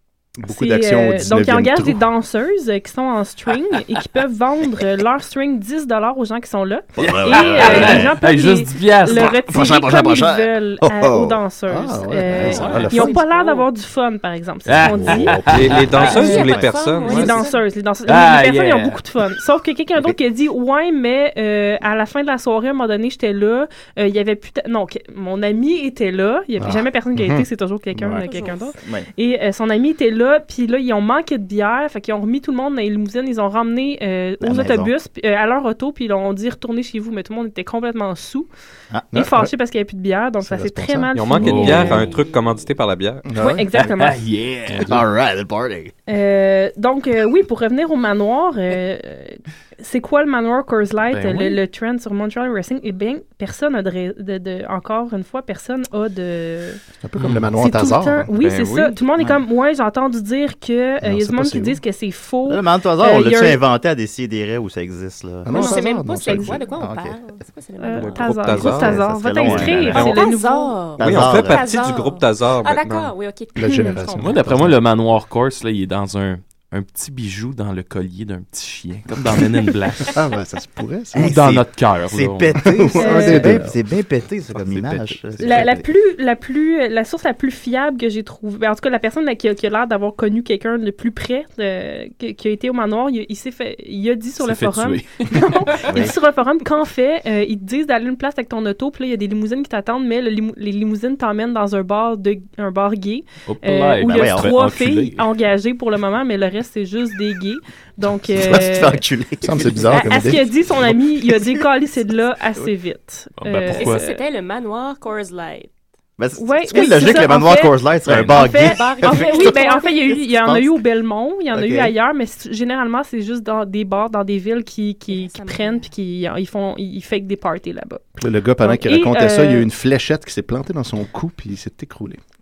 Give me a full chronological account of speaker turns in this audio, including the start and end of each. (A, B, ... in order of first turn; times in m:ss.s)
0:00.4-0:02.0 A
0:00.4-0:38.5 B
0:07.0-0:08.1 C
0:07.1-0:09.4 D
0:09.1-0:11.4 C
0:11.7-0:13.2 A
0:12.3-0:13.7 E
0:14.7-0:16.2 D
0:14.8-0:15.4 A
0:15.1-0:15.8 C
0:15.5-0:17.5 F
0:15.9-0:17.6 E
0:16.4-0:16.7 C
0:18.1-0:19.0 D
0:26.6-0:28.2 A
0:28.2-0:28.7 E
0:28.8-0:29.1 C
0:34.4-0:34.9 C
0:38.9-0:39.2 C
0:39.1-0:39.5 A
0:39.1-0:42.1 B
0:40.4-0:41.8 A
0:41.1-0:43.3 F
0:41.4-0:42.0 D
0:41.8-0:42.7 E
0:43.3-0:43.7 A
0:43.4-0:44.2 B
0:43.7-0:45.0 D
0:44.8-0:45.9 C
0:46.1-0:56.8 B
0:51.1-0:51.6 D
0:57.0-0:58.3 A
0:57.5-1:03.6 B
0:58.4-0:59.0 F
1:01.0-1:01.8 A
1:02.5-1:07.2 C
1:05.4-1:06.6 A
1:05.5-1:08.7 E
1:07.8-1:10.9 B
1:08.0-1:10.3 F
1:08.6-1:10.1 C
1:09.8-1:14.5 E
1:11.0-1:13.1 F
1:11.0-1:11.7 C
1:13.6-1:14.8 A
1:13.6-1:14.1 B
1:14.2-1:20.2 D
1:20.1-1:21.4 A
1:21.1-1:25.9 C
1:21.2-1:22.6 D
1:22.6-1:23.7 A
1:23.0-1:23.6 B
1:25.4-1:49.0 B
1:34.4-1:35.9 D
1:35.9-1:36.1 C
1:43.5-1:45.2 D
1:44.0-1:44.6 C
1:48.3-1:50.3 C
1:49.4-1:50.5 A
1:49.9-1:54.2 B
1:53.4-1:54.0 D
1:53.7-1:55.7 E
1:56.2-2:00.7 C
1:56.4-2:09.7 B
1:58.1-1:58.4 D
1:58.4-2:00.2 E
2:01.5-2:01.9 C
2:05.1-2:05.9 E
2:08.2-2:12.2 A